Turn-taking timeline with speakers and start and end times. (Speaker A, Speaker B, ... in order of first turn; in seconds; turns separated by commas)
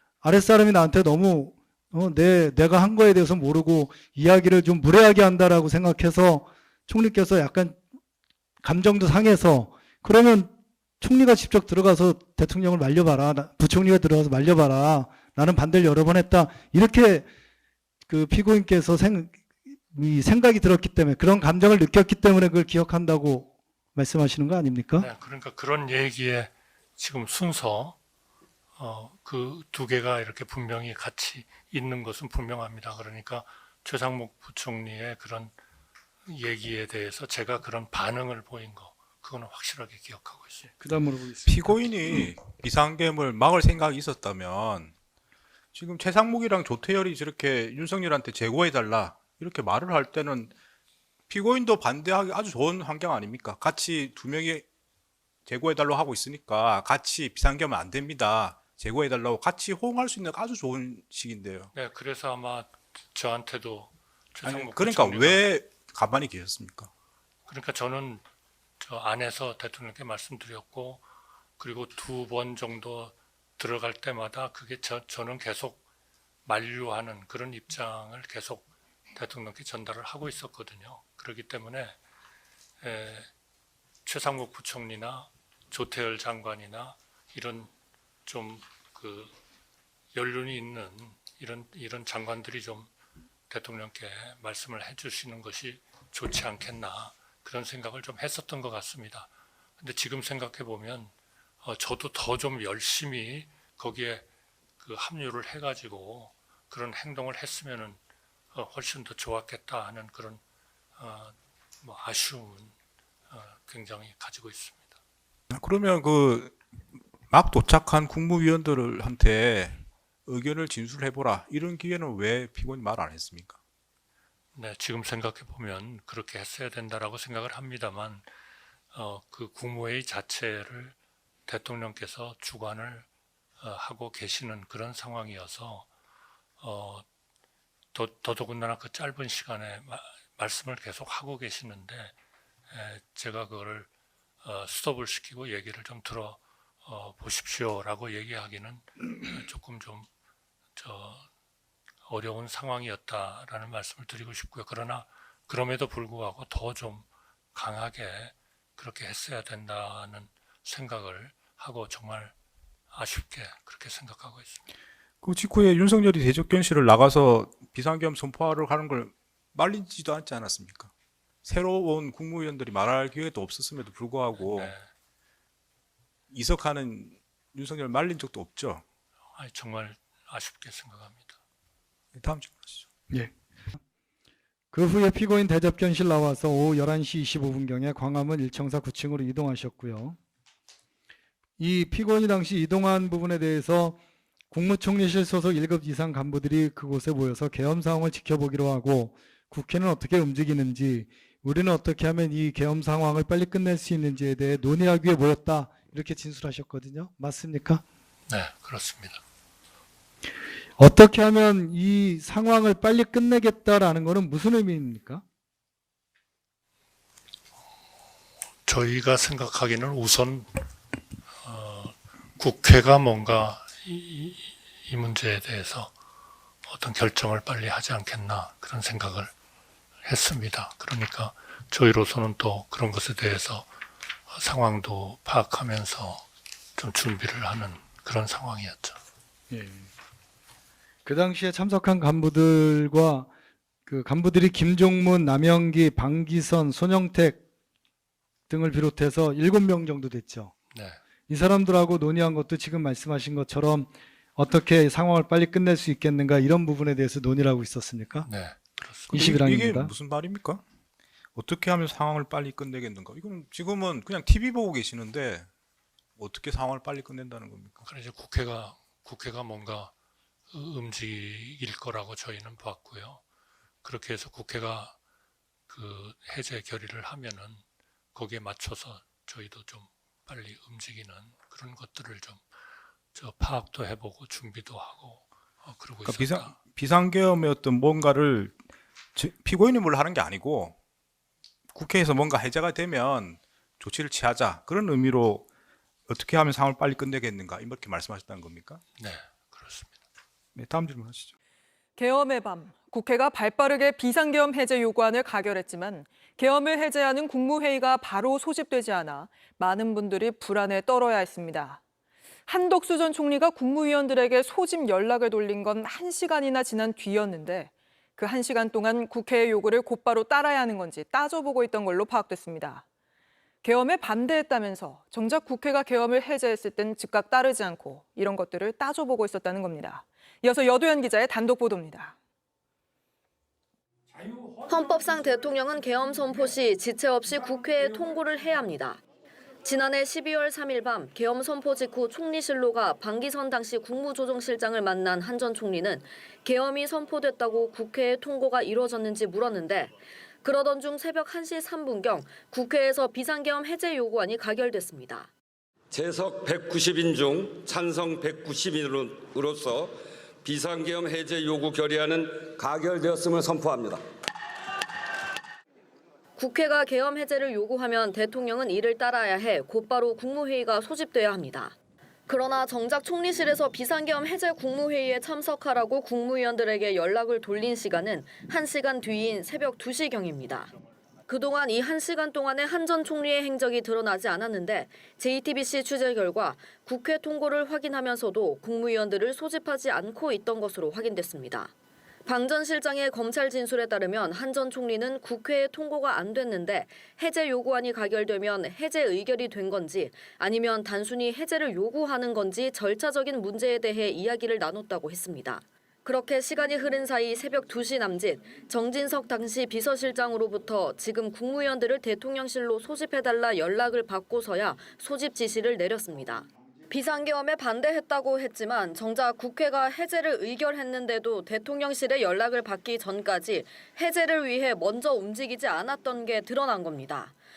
Speaker A: 0.2-7.8, Speaker A: 8.6-17.3, Speaker A: 18.1-19.4, Speaker A: 19.9-25.1, Speaker B: 25.0-28.0, Speaker B: 28.8-35.5, Speaker B: 36.2-40.7, Speaker A: 40.7-41.9, Speaker C: 41.5-44.9, Speaker C: 45.7-50.5, Speaker C: 51.3-54.6, Speaker C: 55.5-61.7, Speaker B: 61.7-65.4, Speaker C: 64.4-66.9, Speaker B: 67.5-68.2, Speaker B: 68.8-71.0, Speaker B: 71.6-75.8, Speaker B: 76.4-82.0, Speaker B: 82.8-83.3, Speaker B: 84.0-87.7, Speaker B: 88.2-89.3, Speaker B: 90.1-92.9, Speaker B: 93.5-104.3, Speaker B: 104.8-108.0, Speaker B: 108.5-110.4, Speaker B: 111.0-112.7, Speaker B: 113.3-115.0, Speaker C: 115.5-123.6, Speaker B: 124.5-128.3, Speaker B: 128.9-133.1, Speaker B: 133.6-135.9, Speaker B: 136.6-137.1, Speaker B: 137.9-142.1, Speaker B: 142.7-143.9, Speaker B: 144.4-150.1, Speaker B: 150.8-151.3, Speaker B: 152.0-162.3, Speaker B: 162.9-164.7, Speaker C: 165.2-170.9, Speaker C: 171.4-174.7, Speaker B: 174.4-174.9, Speaker C: 176.3-178.8, Speaker B: 179.3-181.4, Speaker C: 182.1-182.9, Speaker A: 184.7-190.2, Speaker A: 191.6-194.0, Speaker A: 194.5-207.8, Speaker B: 208.3-209.2, Speaker A: 210.8-215.2, Speaker B: 218.6-220.6, Speaker B: 221.4-225.9, Speaker B: 226.6-229.3, Speaker B: 230.0-233.7, Speaker B: 234.3-236.2, Speaker B: 236.8-239.0, Speaker A: 239.5-239.9, Speaker A: 241.0-243.3, Speaker A: 243.8-247.4, Speaker A: 248.5-250.5, Speaker B: 250.7-251.0, Speaker A: 251.3-258.3, Speaker B: 258.2-259.3, Speaker A: 259.1-259.9, Speaker C: 259.1-260.6, Speaker C: 261.3-265.5, Speaker C: 266.2-267.8, Speaker B: 267.8-269.9, Speaker B: 270.5-273.2, Speaker B: 273.8-274.9, Speaker B: 275.7-277.6, Speaker B: 278.1-282.4, Speaker B: 283.1-286.5, Speaker C: 286.0-288.6, Speaker C: 289.1-290.8, Speaker C: 291.7-295.4, Speaker C: 296.1-298.8, Speaker B: 299.0-299.9, Speaker C: 300.5-301.3, Speaker D: 302.0-311.8, Speaker D: 312.5-322.8, Speaker D: 323.6-332.1, Speaker E: 334.7-339.0, Speaker E: 339.6-349.9, Speaker E: 350.4-355.3, Speaker F: 355.9-364.0, Speaker E: 366.4-371.7, Speaker E: 372.3-380.7, Speaker E: 381.3-391.7, Speaker E: 392.2-427.3